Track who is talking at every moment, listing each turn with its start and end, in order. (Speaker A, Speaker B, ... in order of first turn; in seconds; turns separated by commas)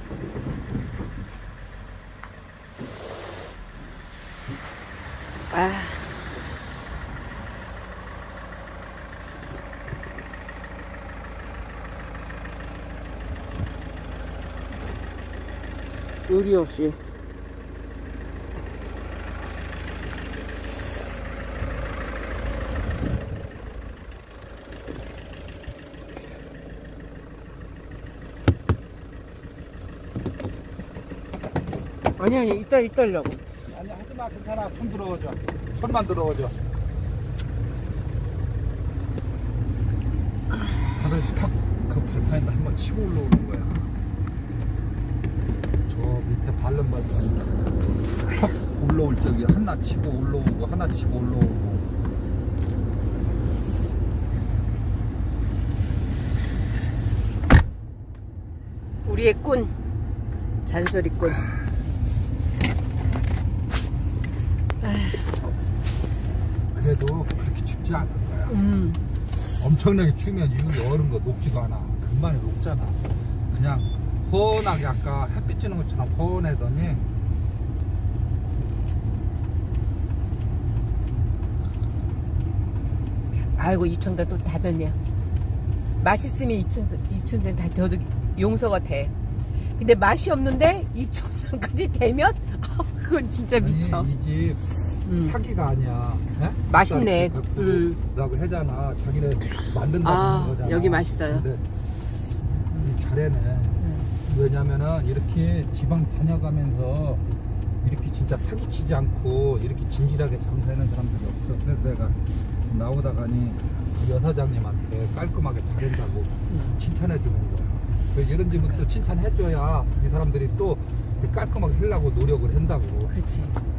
Speaker A: 5.5-6.1, Speaker A: 16.3-17.0, Speaker A: 32.2-33.4, Speaker B: 33.6-36.5, Speaker B: 40.9-43.8, Speaker B: 45.9-47.6, Speaker B: 48.3-51.9, Speaker A: 59.0-59.7, Speaker A: 60.6-61.4, Speaker A: 64.8-65.3, Speaker B: 66.7-68.6, Speaker A: 68.5-69.0, Speaker B: 69.6-77.0, Speaker A: 83.5-85.0, Speaker A: 86.0-89.1, Speaker A: 89.8-94.1, Speaker B: 93.6-101.6, Speaker A: 95.0-95.3, Speaker A: 96.7-97.8, Speaker A: 100.0-101.5, Speaker B: 102.7-107.2, Speaker A: 103.8-104.1, Speaker B: 107.8-123.1, Speaker A: 116.5-116.8, Speaker A: 123.1-123.5